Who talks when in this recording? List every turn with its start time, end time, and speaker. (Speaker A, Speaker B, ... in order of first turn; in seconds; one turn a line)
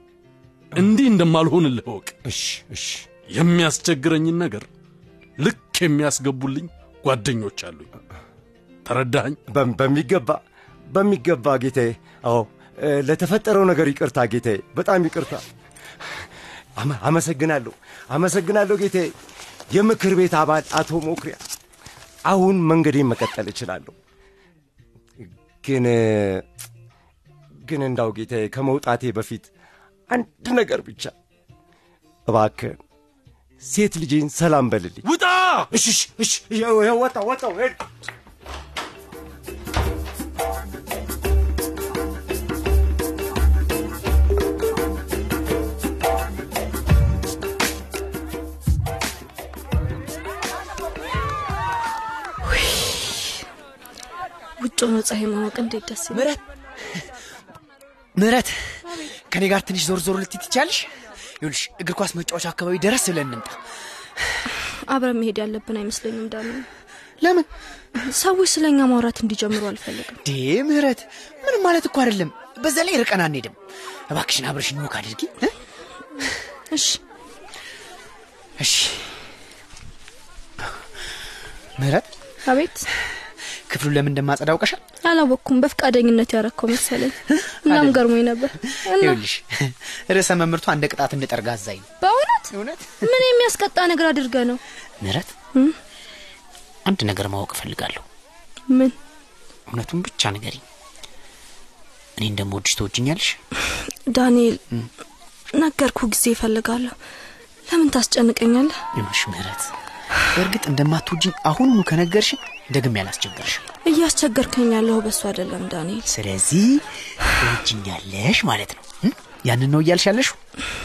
Speaker A: 0.7-2.1
Speaker B: 2.2-3.0
Speaker A: 3.3-4.7
Speaker A: 5.4-7.9
Speaker A: 8.8-9.4
Speaker B: 9.5-10.4
Speaker B: 10.9-15.4
Speaker B: 16.8-19.1
Speaker B: 19.7-21.4
Speaker B: 22.3-23.9
Speaker B: 25.6-26.4
Speaker B: 27.6-29.5
Speaker B: 30.1-31.1
Speaker B: 32.3-32.8
Speaker B: 33.6-35.0
Speaker A: 35.0-35.7
Speaker B: 35.7-37.8
Speaker C: 54.6-56.2
Speaker D: 56.1-56.4
Speaker D: 58.1-58.8
Speaker D: 59.3-63.6
Speaker C: 64.9-66.7
Speaker D: 67.2-67.5
Speaker C: 68.0-70.2
Speaker D: 70.2-73.6
Speaker D: 74.1-75.5
Speaker C: 76.7-77.0
Speaker D: 78.6-79.1
Speaker D: 81.8-82.1
Speaker C: 82.4-82.9
Speaker D: 83.7-84.8
Speaker C: 85.0-89.2
Speaker D: 87.6-88.0
Speaker D: 88.8-91.9
Speaker C: 92.0-94.6
Speaker D: 92.5-93.1
Speaker D: 95.0-95.3
Speaker D: 96.8-98.0
Speaker C: 98.7-98.9
Speaker D: 99.7-100.6
Speaker D: 102.2-103.4
Speaker C: 104.0-104.6
Speaker C: 105.5-106.9
Speaker C: 107.7-108.8
Speaker D: 108.9-109.7
Speaker D: 110.3-113.7
Speaker C: 113.8-116.1
Speaker D: 116.1-116.8
Speaker D: 117.4-120.4